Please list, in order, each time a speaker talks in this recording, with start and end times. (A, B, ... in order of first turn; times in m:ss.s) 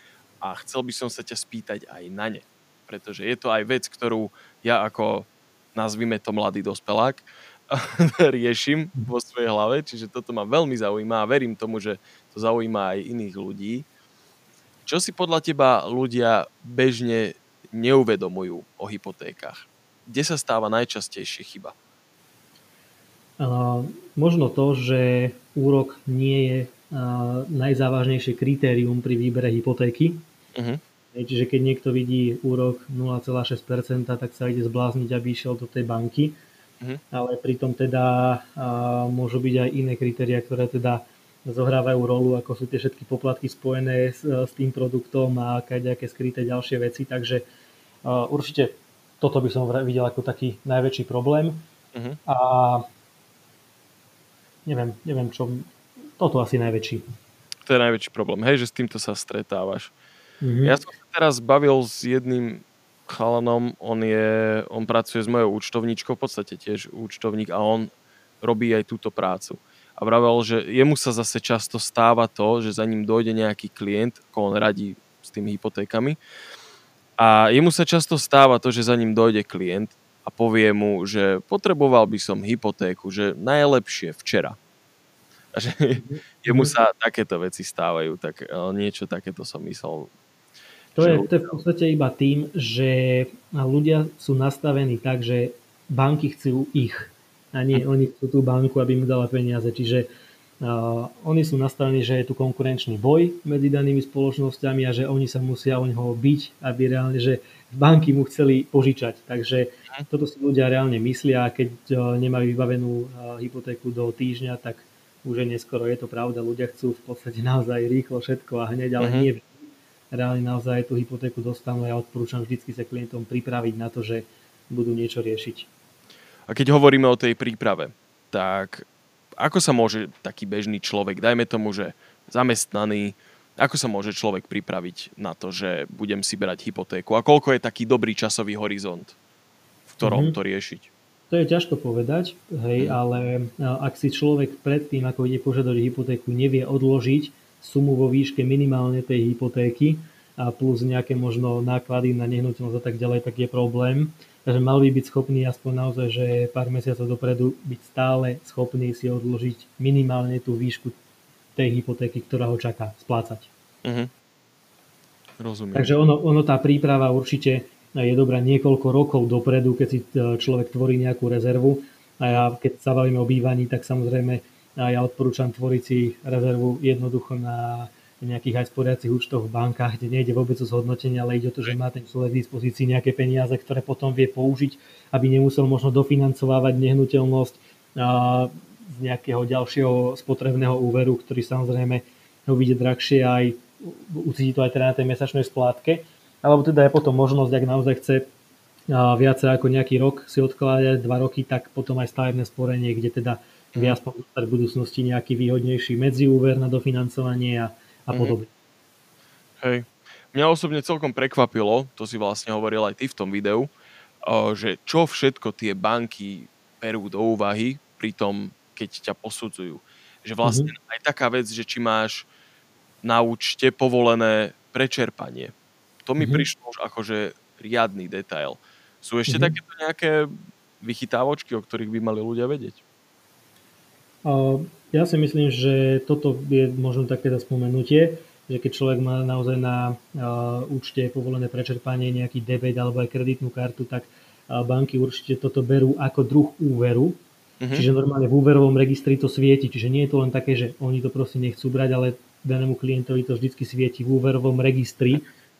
0:00.4-0:13.9 A
0:14.9-0:21.8 A
0:23.4-0:30.2 B
0:30.6-0:30.8 A
0:31.1-0:36.4 B
0:37.1-0:47.4 B
0:48.0-0:51.6 B
0:52.3-0:52.8 B
0:54.6-0:57.0 B
0:57.6-0:59.9 A
1:00.4-1:00.8 B
1:00.6-1:07.9 A
1:08.4-1:16.2 A
1:17.2-1:24.6 A
1:25.5-1:30.1 A
1:26.0-1:26.7 B
1:31.0-1:40.1 B
1:31.0-1:31.6 A
1:40.6-1:59.6 B
1:59.0-1:59.3 A
2:00.1-2:05.7 B
2:06.5-2:08.9 A
2:09.4-2:19.1 A
2:19.9-2:20.9 A
2:20.0-2:20.4 B
2:21.3-2:41.0 B
2:41.6-2:43.5 B
2:43.8-2:44.1 A
2:45.4-2:45.9 A
2:45.7-3:18.3 B
3:18.9-3:28.5 B
3:29.6-3:33.7 A
3:34.2-3:42.3 A
3:40.4-3:40.7 B
3:43.0-3:45.5 A
3:46.1-3:52.8 A
3:46.2-3:46.5 B
3:49.3-3:49.5 B
3:54.2-4:07.2 B
4:07.6-4:07.9 A
4:07.7-4:15.2 B